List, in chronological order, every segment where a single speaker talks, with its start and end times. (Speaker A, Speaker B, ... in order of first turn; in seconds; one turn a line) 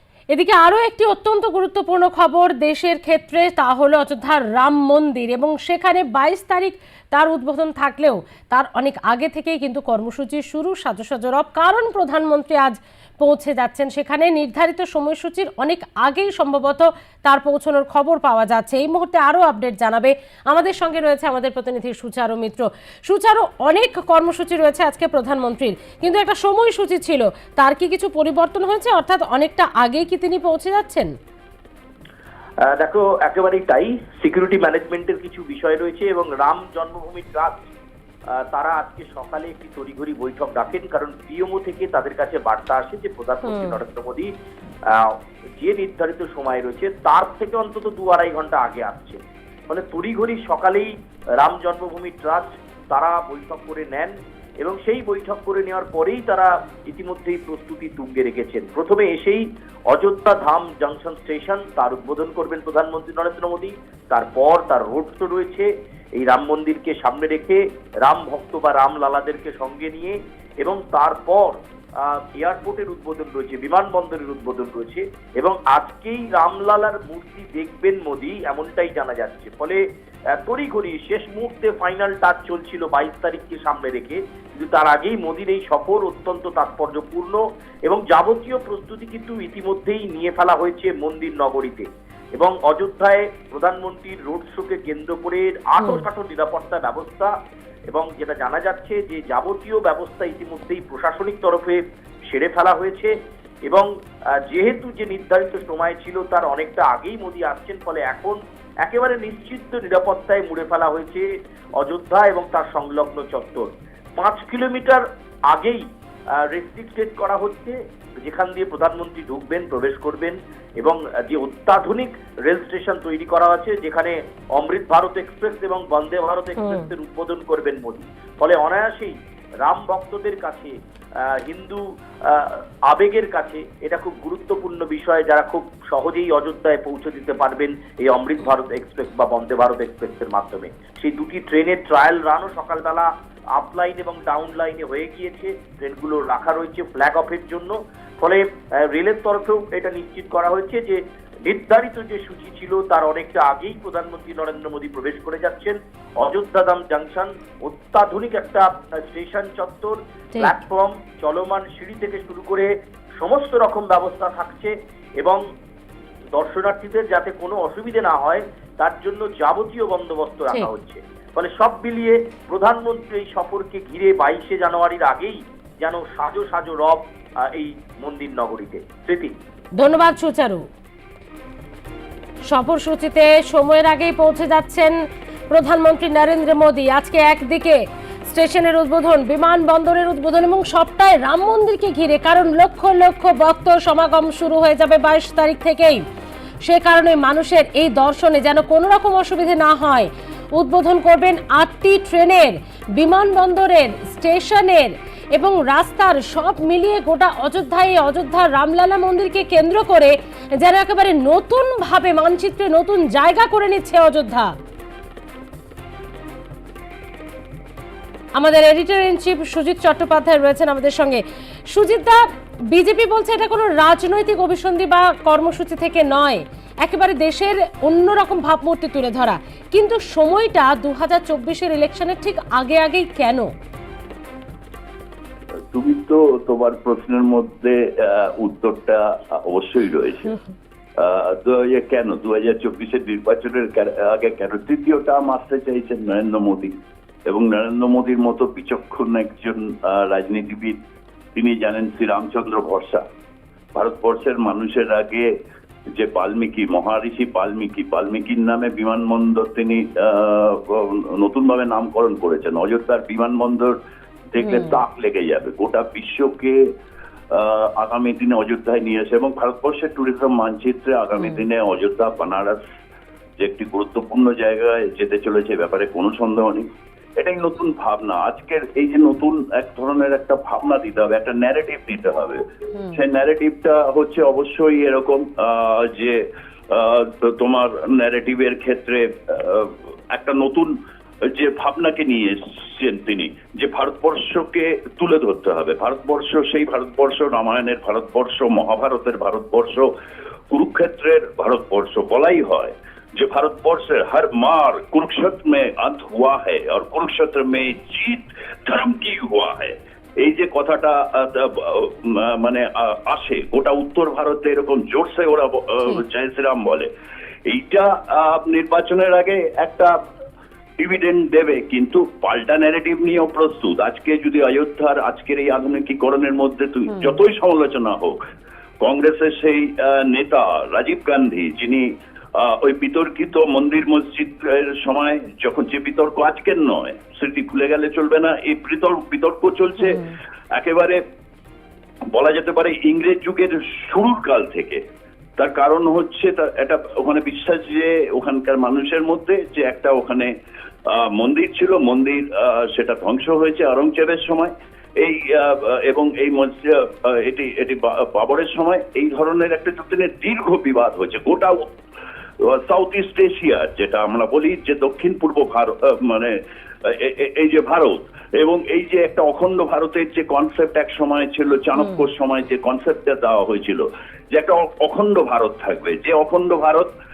Speaker A: 0.3-31.1
Speaker B: 32.6-37.6
Speaker B: 38.5-44.3
Speaker A: 43.5-43.8
Speaker B: 45.0-79.8
Speaker B: 80.4-97.3
Speaker B: 97.9-103.9
Speaker B: 104.5-111.3
Speaker B: 111.8-115.8
Speaker B: 116.5-130.7
Speaker A: 126.6-126.9
Speaker B: 131.4-165.4
Speaker B: 166.4-179.3
Speaker A: 179.8-180.6
Speaker A: 182.5-184.9
Speaker A: 185.5-196.0
Speaker A: 196.6-214.5
Speaker A: 218.3-222.2
Speaker A: 222.7-233.5
Speaker C: 235.7-240.3
Speaker C: 241.0-246.7
Speaker C: 247.3-250.8
Speaker C: 251.3-253.0
Speaker C: 253.8-255.3
Speaker C: 255.9-263.7
Speaker C: 264.3-266.6
Speaker A: 264.4-264.8
Speaker C: 267.3-272.6
Speaker A: 271.2-271.4
Speaker C: 273.4-276.7
Speaker C: 277.2-282.4
Speaker A: 282.7-283.0
Speaker C: 282.9-299.9
Speaker C: 300.5-316.9
Speaker C: 317.5-319.9
Speaker C: 320.8-328.2
Speaker C: 328.8-341.0
Speaker C: 342.1-344.8
Speaker C: 345.4-350.3
Speaker C: 350.9-361.6
Speaker C: 362.4-376.9